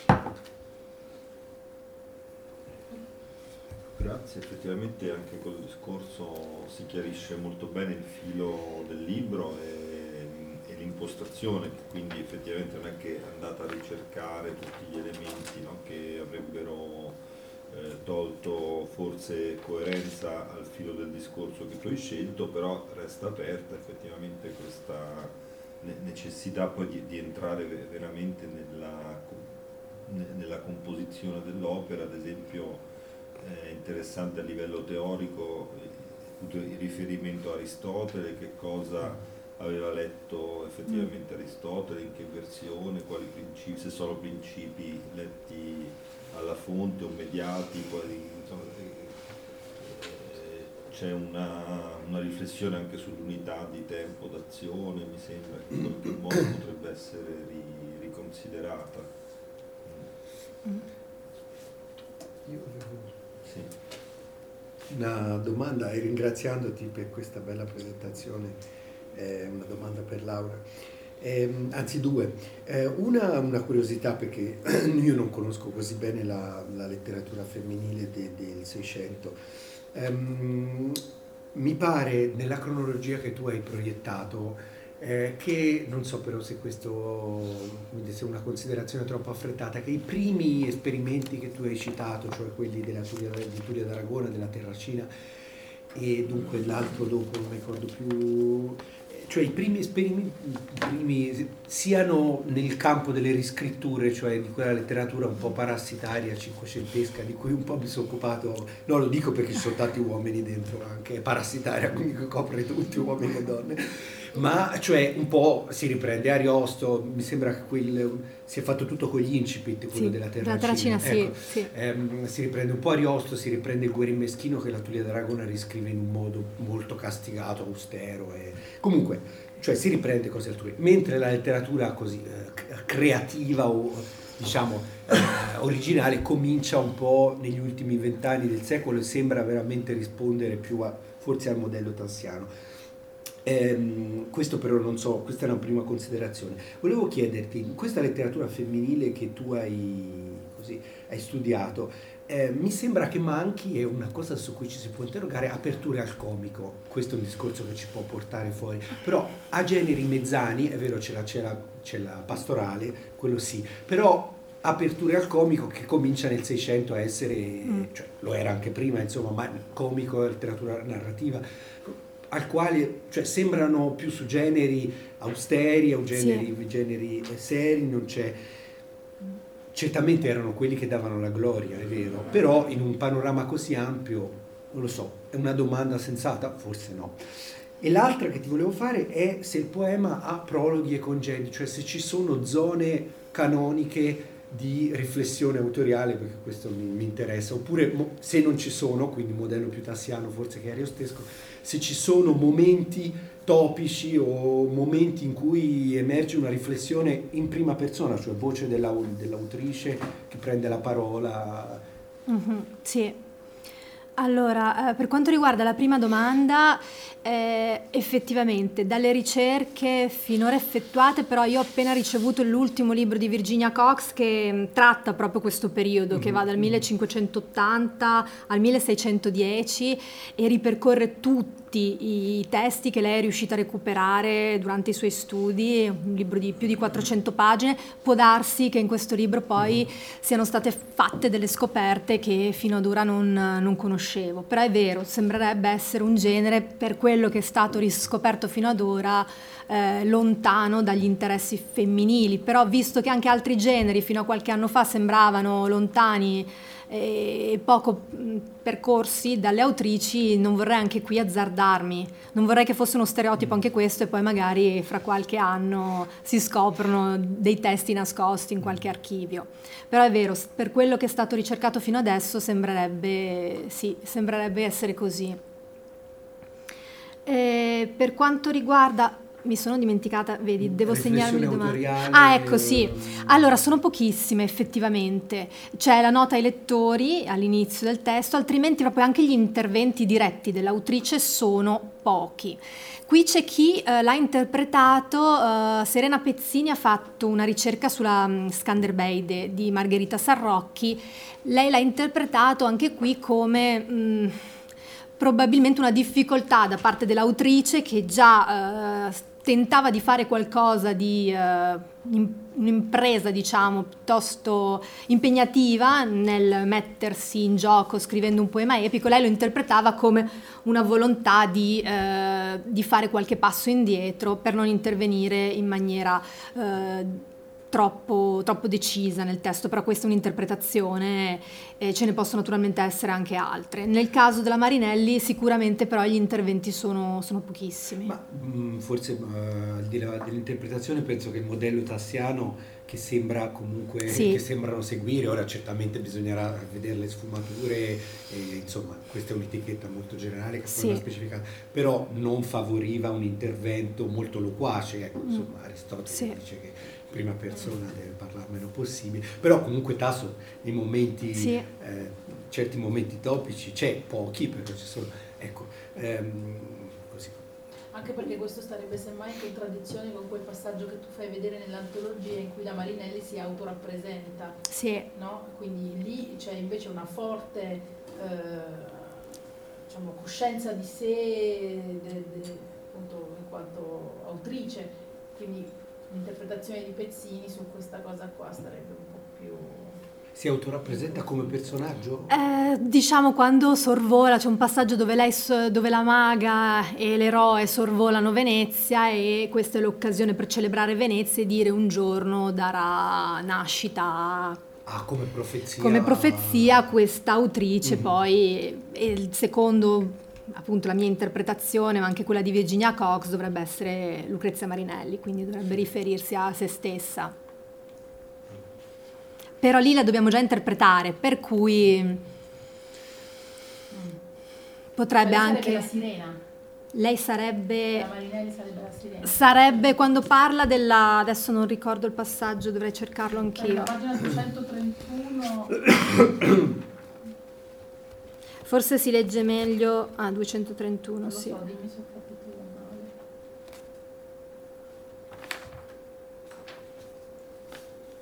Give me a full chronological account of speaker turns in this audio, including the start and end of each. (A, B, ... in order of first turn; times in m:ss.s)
0:03.9-0:32.8 A
0:33.4-0:49.2 A
0:49.8-0:59.1 A
0:59.8-1:00.1 A
1:02.5-1:03.2 B
1:03.4-1:03.7 A
1:04.9-1:08.6 B
1:09.1-1:10.6 B
1:11.2-1:19.4 B
1:19.9-1:21.0 B
1:21.5-1:35.1 B
1:35.9-2:22.5 B
2:00.0-2:01.7 C
2:23.4-2:58.4 B
2:56.1-2:56.5 C
2:59.7-3:07.2 B
3:07.8-3:31.8 B
3:32.3-3:33.2 C
3:34.2-4:35.4 C
4:37.3-5:04.4 C
4:40.6-4:43.5 B
5:05.2-5:38.1 C
5:38.0-6:07.5 B
5:44.1-5:44.4 C
5:50.7-5:51.0 C
5:56.1-5:56.4 C
6:01.3-6:01.7 C
6:07.9-6:14.6 D
6:14.7-6:15.1 C
6:15.1-6:19.2 D
6:19.9-6:30.0 D
6:30.4-6:32.3 B
6:30.9-6:31.6 D
6:32.3-6:44.6 C
6:44.9-6:46.8 B
6:45.8-6:57.3 C
6:59.6-7:02.2 C
7:03.9-7:04.2 D
7:05.0-7:05.9 C
7:05.2-7:06.4 D
7:06.9-7:08.1 C
7:07.9-7:10.0 D
7:09.2-7:13.9 C
7:13.4-7:16.2 D
7:18.6-7:21.6 C
7:21.2-7:23.1 D